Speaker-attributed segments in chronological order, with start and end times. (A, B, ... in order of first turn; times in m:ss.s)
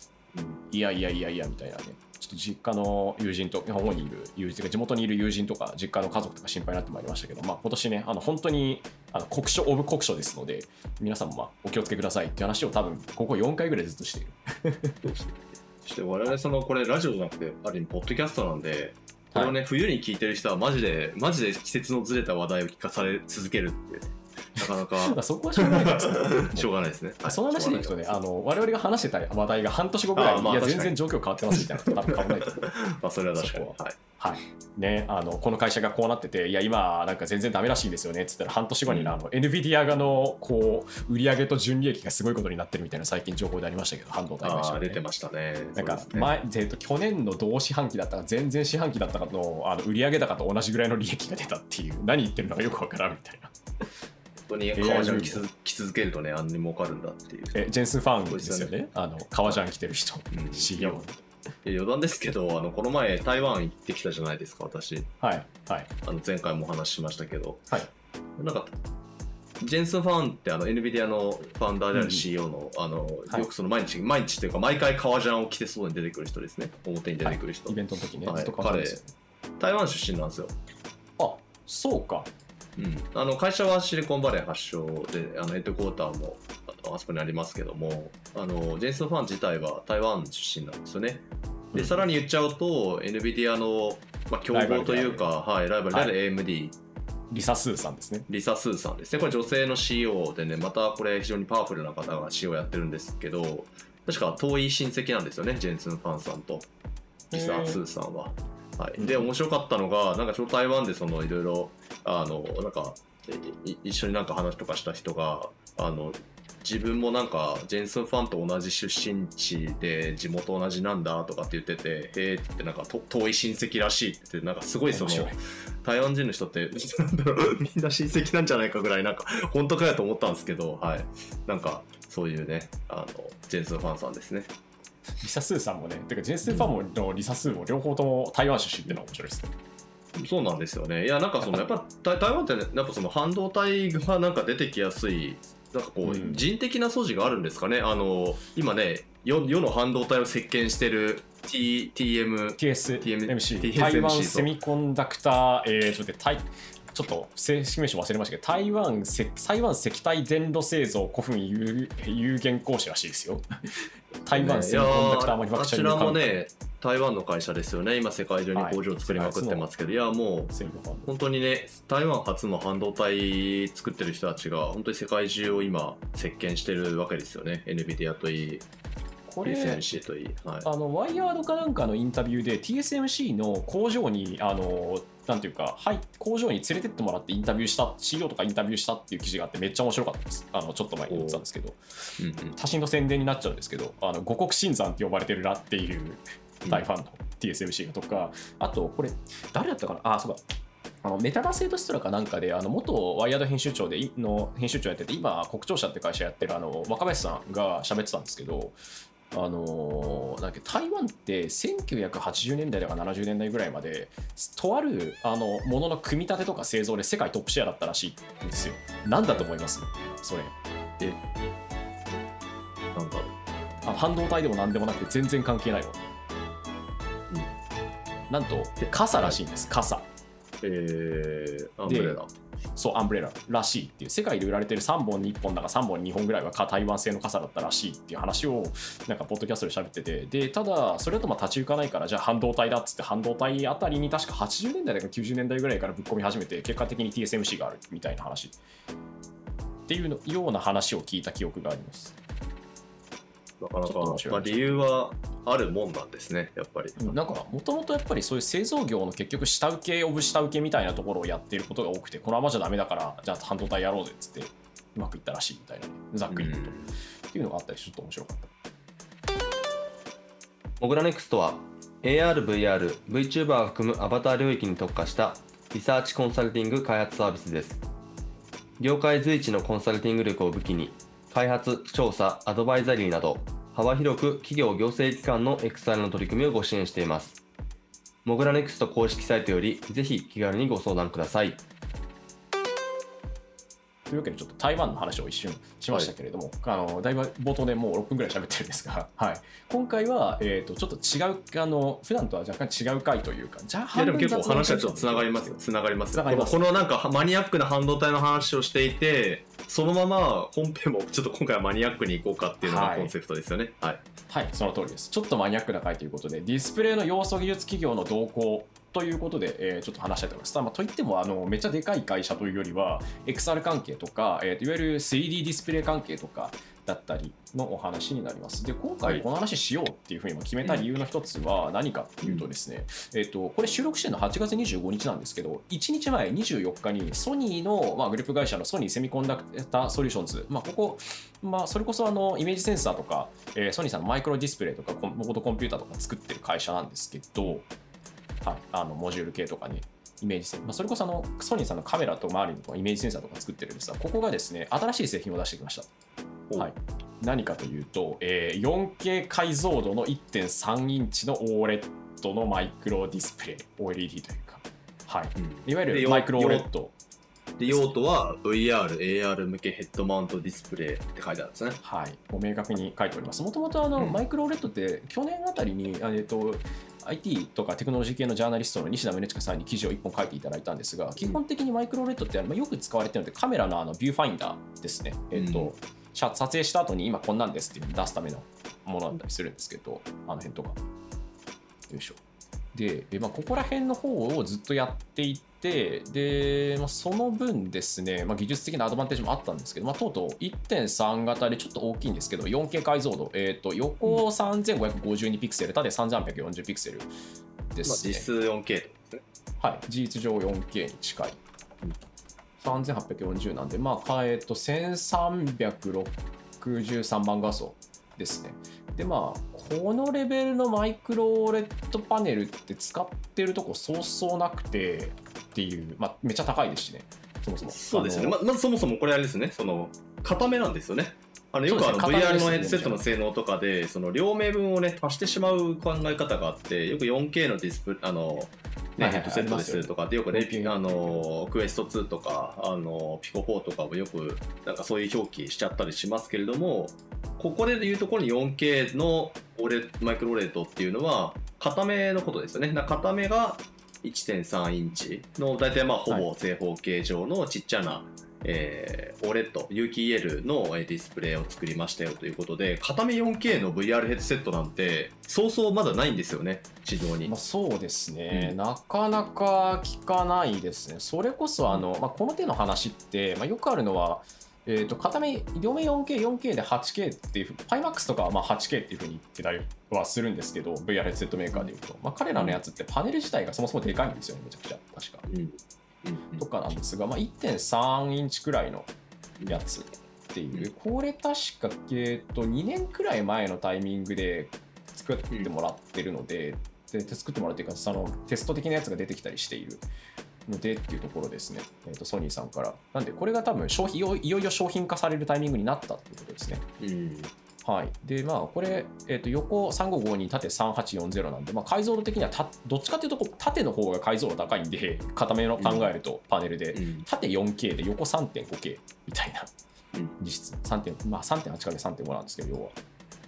0:00.7-0:15.0 A
0:15.0-0:28.2 B
0:19.3-0:19.6 A
0:25.0-0:26.7 A
0:27.2-0:32.7 A
0:30.2-0:31.0 B
0:31.5-0:34.0 B
0:33.4-0:45.0 A
0:38.9-0:39.2 B
0:44.4-0:46.4 B
0:45.8-0:53.5 A
0:54.5-0:57.6 B
0:54.8-0:55.4 A
0:57.5-1:01.2 A
0:58.3-0:58.7 B
1:00.3-1:01.0 B
1:01.6-1:05.1 B
1:05.2-1:05.9 A
1:06.0-1:07.7 B
1:08.4-1:08.7 B
1:09.6-1:19.0 B
1:11.9-1:12.3 A
1:17.2-1:19.1 A
1:19.6-1:20.6 B
1:21.2-1:22.3 A
1:22.8-1:36.8 B
1:31.7-1:32.1 A
1:34.5-1:35.3 A
1:37.3-1:38.3 A
1:38.3-1:46.7 B
1:47.3-1:47.8 A
1:47.3-2:14.5 B
1:49.0-1:49.3 A
2:04.9-2:05.4 A
2:15.2-2:19.5 A
2:20.2-2:34.5 B
2:26.0-2:26.5 A
2:32.6-2:43.4 A
2:44.2-2:46.4 A
2:44.3-2:50.5 B
2:48.6-2:49.7 A
2:50.5-2:51.1 A
2:51.1-2:58.6 B
2:59.3-2:59.9 A
2:59.4-3:00.7 B
3:00.6-3:20.4 A
3:11.1-3:11.4 B
3:12.2-3:12.6 B
3:21.0-3:28.8 A
3:29.3-3:40.5 A
3:43.0-3:43.3 B
3:43.8-3:46.0 A
3:48.3-3:50.1 A
3:48.8-3:49.4 B
3:50.6-3:52.3 B
3:51.9-3:52.2 A
3:52.8-4:08.6 A
4:09.9-4:12.2 A
4:13.6-4:17.2 B
4:13.9-4:14.7 A
4:17.0-4:26.8 A
4:26.3-4:27.0 B
4:27.3-4:28.5 A
4:30.8-4:37.8 C
4:38.8-4:47.4 C
4:48.2-4:51.6 C
4:54.1-5:05.6 A
5:03.9-5:14.0 B
5:06.1-5:06.7 A
5:12.6-5:13.1 A
5:14.3-5:47.7 A
5:30.6-5:31.0 B
5:48.4-5:55.9 A
5:56.6-6:06.9 A
6:05.4-6:06.7 B
6:07.6-6:11.8 B
6:07.7-6:08.0 A
6:11.8-6:30.8 A
6:25.4-6:25.7 B
6:31.9-6:32.2 A
6:32.7-6:47.1 A
6:47.7-6:48.3 A
6:47.8-6:49.2 B
6:49.6-6:51.4 A
6:52.6-7:08.4 A
7:07.6-7:47.3 B
7:11.7-7:13.0 A
7:19.0-7:21.2 A
7:47.2-8:05.3 A
8:02.4-8:02.6 B
8:05.3-8:06.4 B
8:06.4-8:08.9 A
8:09.5-8:19.8 A
8:20.5-8:26.7 A
8:26.8-8:27.3 B
8:27.6-8:39.5 A
8:35.6-8:35.9 B
8:36.7-8:37.1 B
8:40.2-8:42.8 A